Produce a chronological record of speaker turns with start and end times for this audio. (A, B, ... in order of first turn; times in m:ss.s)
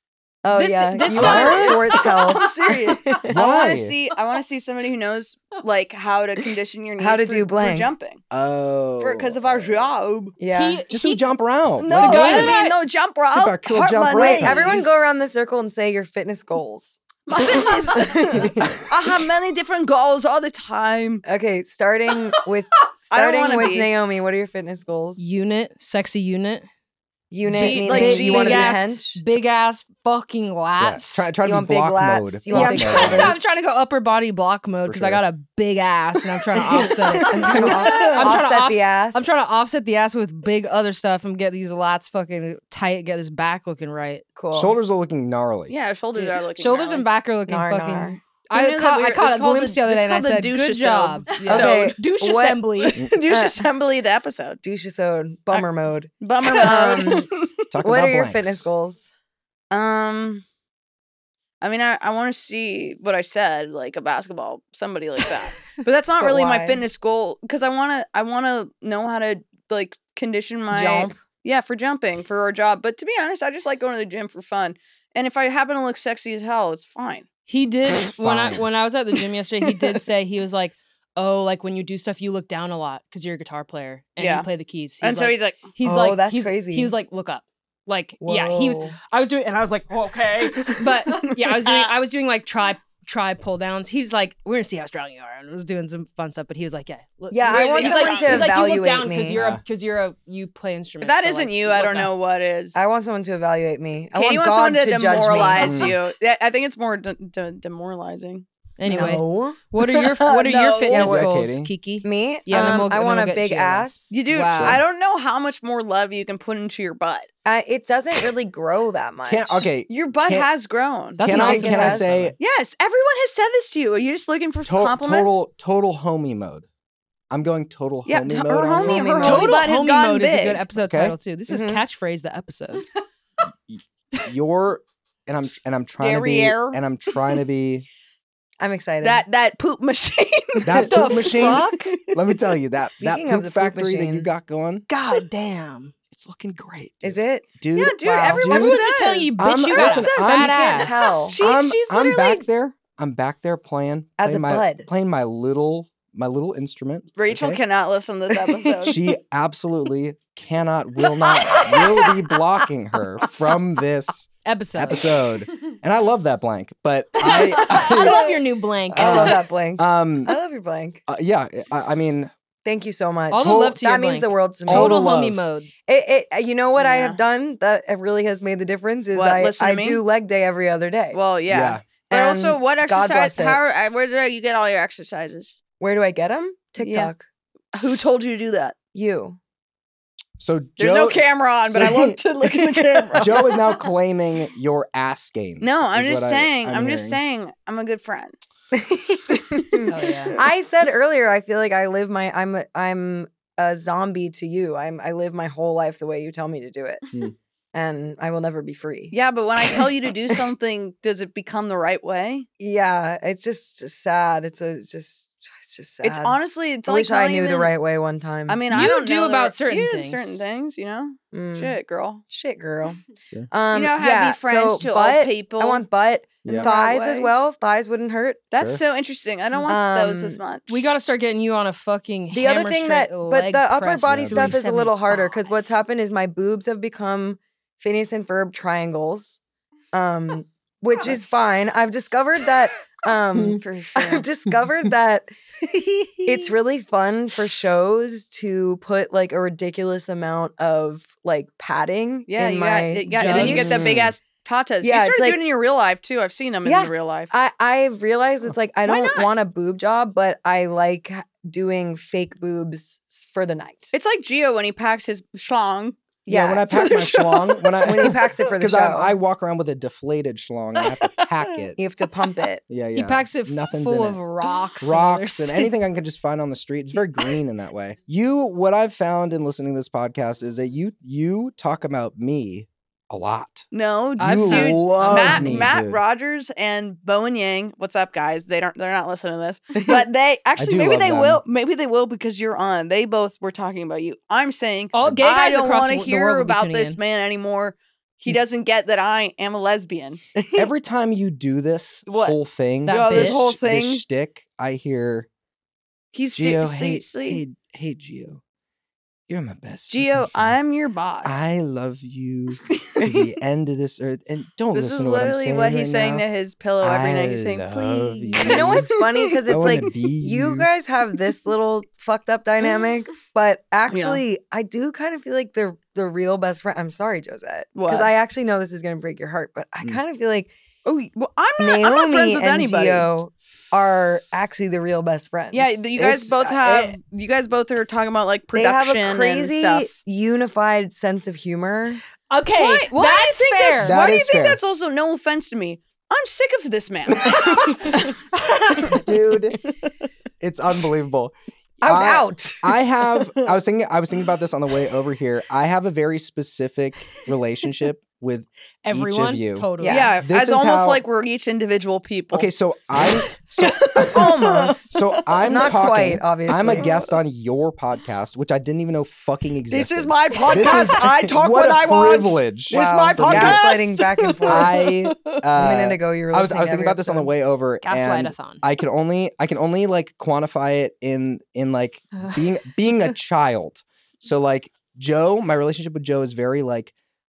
0:00.4-0:03.3 A
0:00.5-0:02.4 B
0:01.1-0:08.2 C
0:01.1-0:01.8 D
0:03.3-0:04.0 D
0:07.0-0:07.9 A
0:08.3-0:09.9 D
0:09.0-0:10.4 C
0:10.4-0:10.8 A
0:10.5-0:11.2 B
0:10.9-0:12.6 D
0:11.8-0:14.9 C
0:11.9-0:12.8 B
0:13.3-0:15.0 D
0:14.1-0:18.8 A
0:17.3-0:21.2 C
0:21.2-0:25.2 A
0:23.1-0:23.9 C
0:25.2-0:26.6 B
0:27.3-0:29.2 A
0:27.5-0:28.8 C
0:27.5-0:31.3 B
0:30.8-0:33.4 D
0:31.4-0:33.5 A
0:32.5-0:44.2 B
0:34.9-0:35.2 D
0:37.1-0:39.2 A
0:37.9-0:38.3 C
0:44.4-0:44.8 A
0:44.5-0:45.8 D
0:45.7-0:47.0 C
0:46.1-0:52.9 B
0:47.5-0:48.2 A
0:48.5-0:52.1 C
0:51.5-0:53.6 A
0:52.8-0:54.6 C
0:54.6-0:59.1 A
0:56.2-0:57.5 C
0:57.7-0:58.7 D
0:59.7-1:00.4 C
1:01.6-1:17.2 C
1:06.2-1:06.8 A
1:10.7-1:11.2 A
1:17.5-1:42.1 B
1:18.2-1:18.6 D
1:24.2-1:24.5 C
1:25.0-1:25.7 C
1:25.8-1:26.9 A
1:28.2-1:28.9 A
1:31.6-1:31.9 C
1:37.3-1:39.4 A
1:37.5-1:38.5 C
1:39.4-1:39.6 D
1:41.0-1:42.9 C
1:42.7-1:45.9 A
1:44.1-1:48.5 C
1:45.6-1:46.0 D
1:48.8-1:54.8 B
1:48.9-1:49.6 A
1:50.1-1:51.2 C
1:50.9-1:51.7 D
1:52.0-1:54.1 A
1:52.5-1:52.9 C
1:54.1-1:57.3 C
1:54.5-1:54.8 D
1:57.4-1:59.7 A
1:59.2-2:00.5 D
1:59.9-2:01.2 C
2:01.2-2:02.3 B
2:01.2-2:02.4 D
2:01.3-2:02.3 A
2:02.4-2:05.4 C
2:04.6-2:06.7 D
2:07.3-2:09.2 D
2:08.0-2:10.6 C
2:08.8-2:09.6 A
2:09.2-2:12.9 B
2:10.8-2:11.2 D
2:11.5-2:11.8 A
2:13.7-2:17.9 D
2:16.0-2:17.4 C
2:18.6-2:19.2 A
2:19.0-2:22.1 C
2:20.6-2:24.9 D
2:20.8-2:21.9 B
2:22.8-2:24.3 A
2:24.9-2:25.9 B
2:26.1-2:28.8 D
2:27.0-2:27.5 A
2:27.7-2:32.4 C
2:28.0-2:28.5 A
2:28.5-2:31.2 B
2:29.4-2:30.9 D
2:30.0-2:31.4 A
2:31.4-2:37.6 D
2:34.2-2:34.9 A
2:37.2-2:39.0 C
2:38.5-2:38.9 A
2:38.9-2:48.3 D
2:44.4-2:45.1 B
2:47.2-2:49.4 B
2:48.9-2:51.0 A
2:48.9-2:50.4 D
2:51.1-2:52.3 D
2:52.6-2:55.1 A
2:53.3-2:55.7 B
2:53.4-2:53.7 D
2:54.7-2:55.5 D
2:55.9-3:01.2 A
2:56.8-2:57.2 C
2:59.1-3:00.0 C
3:01.1-3:05.6 C
3:01.5-3:01.8 D
3:02.1-3:03.8 A
3:05.8-3:07.2 A
3:06.8-3:07.1 C
3:07.7-3:08.8 C
3:08.9-3:09.4 A
3:10.4-3:12.2 D
3:10.8-3:13.5 C
3:12.9-3:13.2 A
3:13.2-3:17.2 D
3:15.6-3:18.4 C
3:18.7-3:27.1 A
3:19.9-3:20.4 B
3:19.9-3:20.4 C
3:27.7-3:29.1 A
3:29.1-3:32.5 C
3:32.6-3:38.6 A
3:36.0-3:37.7 C
3:38.5-3:42.2 C
3:38.7-3:40.4 B
3:41.3-3:41.8 A
3:42.3-3:43.0 A
3:43.5-3:48.4 A
3:43.7-3:45.8 C
3:46.4-3:46.7 D
3:46.5-3:47.3 C
3:48.5-3:50.8 C
3:49.7-3:50.4 A
3:50.7-3:55.3 B
3:52.3-3:59.4 A
3:54.0-3:54.6 D
3:59.9-4:05.3 A
4:03.6-4:04.2 C
4:06.2-4:14.1 A
4:12.3-4:17.3 C
4:13.1-4:14.0 B
4:13.7-4:14.1 D
4:14.8-4:15.4 A
4:16.6-4:23.9 A
4:18.8-4:19.3 C
4:23.9-4:26.0 C
4:26.2-4:26.7 A
4:26.3-4:31.8 D
4:26.7-4:28.1 C
4:27.8-4:29.2 A
4:30.8-4:31.7 C
4:31.8-4:32.6 A
4:32.7-4:34.2 D
4:33.0-4:35.7 B
4:34.8-4:43.7 D
4:43.7-5:00.2 C
4:44.2-4:45.8 B
4:44.2-4:46.0 D
4:50.6-4:51.4 D
4:54.9-4:57.0 B
5:00.6-5:05.3 D
5:02.0-5:04.0 C
5:02.8-5:03.5 B
5:06.1-5:07.4 C
5:06.3-5:08.4 D
5:09.3-5:10.5 D
5:09.9-5:11.5 C
5:11.2-5:16.3 D
5:14.7-5:19.7 C
5:16.8-5:20.7 D
5:18.4-5:30.5 A
5:23.9-5:24.2 C
5:27.8-5:28.1 C
5:30.8-5:33.1 C
5:31.6-5:35.8 A
5:35.5-5:39.9 C
5:36.0-5:37.0 D
5:38.5-5:42.0 A
5:42.3-5:44.0 B
5:42.5-5:48.1 C
5:43.8-5:44.6 D
5:47.2-5:47.6 D
5:48.6-5:49.0 B
5:48.8-5:49.7 D
5:50.4-5:59.7 D
5:51.8-5:52.8 A
5:58.8-6:00.2 B
5:59.8-6:00.2 A
5:59.8-6:02.5 C
6:00.2-6:01.0 D
6:02.3-6:26.9 D
6:03.6-6:05.5 C
6:04.2-6:04.9 A
6:05.4-6:07.0 A
6:09.7-6:15.4 C
6:12.7-6:14.7 A
6:15.5-6:17.3 A
6:17.8-6:18.6 B